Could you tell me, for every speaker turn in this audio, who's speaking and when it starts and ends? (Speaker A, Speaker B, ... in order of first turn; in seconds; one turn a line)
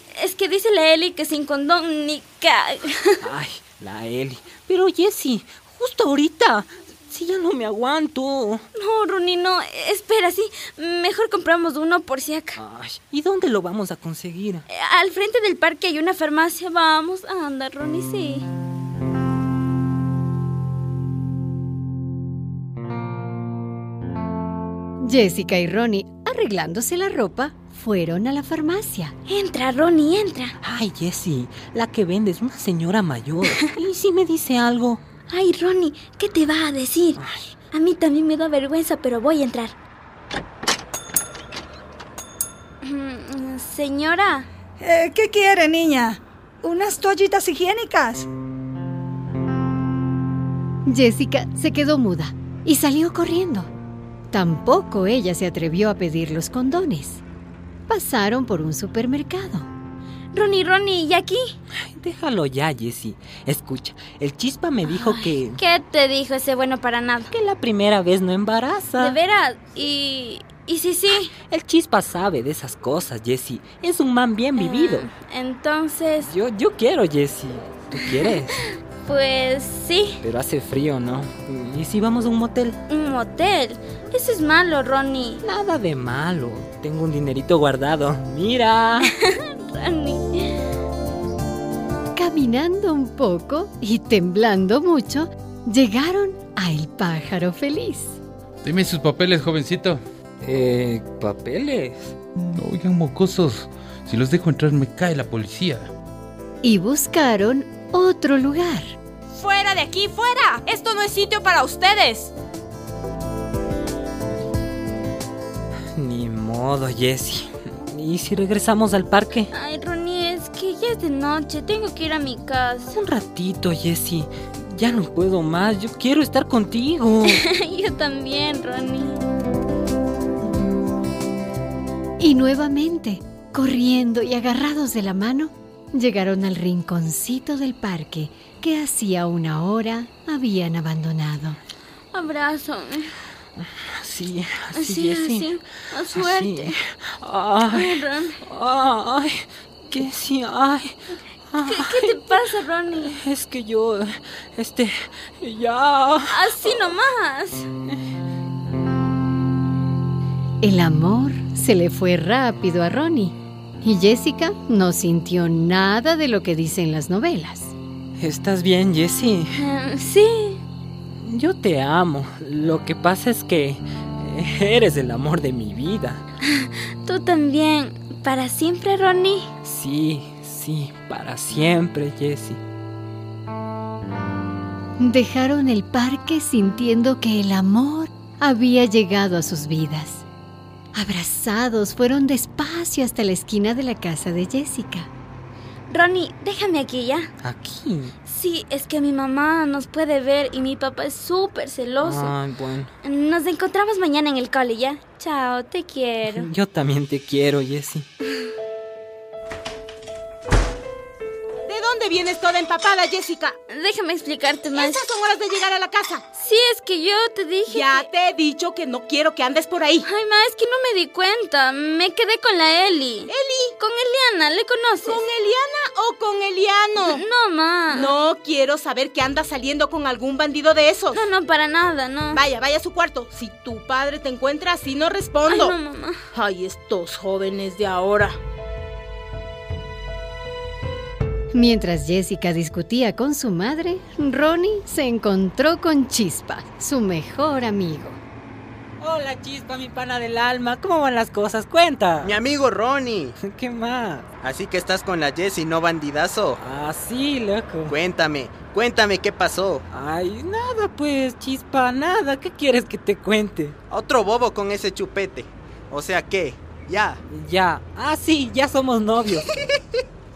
Speaker A: 0.1-3.2
Speaker B: 3.2-8.7
Speaker A: 8.8-12.6
Speaker B: 12.6-14.7
Speaker A: 14.7-18.5
Speaker C: 25.0-29.1
Speaker A: 29.3-30.6
Speaker B: 30.6-35.0
Speaker A: 35.3-37.2
Speaker B: 37.2-37.5
Speaker A: 37.7-39.7
Speaker A: 42.8-44.5
Speaker D: 44.8-48.3
Speaker C: 50.9-53.7
Speaker C: 54.3-57.2
Speaker C: 57.9-59.7
Speaker A: 60.3-61.5
Speaker B: 61.8-65.6
Speaker A: 64.9-67.3
Speaker B: 67.3-69.2
Speaker A: 69.0-71.3
Speaker B: 71.5-75.1
Speaker A: 74.6-76.3
Speaker B: 76.2-78.7
Speaker A: 79.0-80.2
Speaker B: 80.2-82.8
Speaker A: 82.9-85.4
Speaker B: 85.4-89.1
Speaker A: 89.0-90.6
Speaker C: 92.2-98.2
Speaker E: 98.6-100.0
Speaker B: 100.4-102.1
Speaker E: 102.4-105.9
Speaker C: 106.6-109.0
Speaker F: 109.3-112.3
Speaker B: 116.0-119.5
Speaker A: 119.5-123.0
Speaker B: 122.9-127.4
Speaker A: 127.3-129.2
Speaker C: 132.2-141.6
Speaker A: 142.1-143.1
Speaker B: 143.8-145.5
Speaker A: 144.8-146.8
Speaker B: 146.1-151.0
Speaker A: 147.7-148.4
Speaker B: 151.5-152.3
Speaker A: 151.6-153.2
Speaker B: 153.1-156.9
Speaker A: 156.3-157.7
Speaker C: 160.6-167.7
Speaker B: 168.2-169.6
Speaker A: 169.6-170.6
Speaker B: 171.2-176.2
Speaker A: 176.6-179.5
Speaker B: 179.7-182.6
Speaker C: 185.0-190.2
Speaker C: 190.9-195.1
Speaker A: 195.9-197.3
Speaker B: 197.4-198.2
Speaker A: 198.3-202.3
Speaker B: 202.0-202.9
Speaker A: 203.0-206.5
Speaker B: 206.3-208.1
Speaker F: 211.7-213.6
Speaker A: 213.7-215.1
Speaker F: 214.8-216.2
Speaker A: 216.3-218.0
Speaker F: 217.7-220.1
Speaker A: 220.0-225.2
Speaker F: 223.3-223.8
Speaker F: 225.1-227.2
Speaker A: 227.0-228.1
Speaker F: 227.9-231.2
Speaker A: 231.1-232.4
Speaker F: 232.3-235.8
Speaker A: 235.5-236.2
Speaker F: 236.3-238.4
Speaker C: 241.5-248.2
Speaker B: 249.0-252.3
Speaker G: 252.2-253.4
Speaker B: 253.4-254.3
Speaker G: 254.4-256.6
Speaker B: 256.6-257.9
Speaker G: 257.9-259.9
Speaker B: 259.9-263.8
Speaker G: 263.9-267.2
Speaker B: 267.3-269.5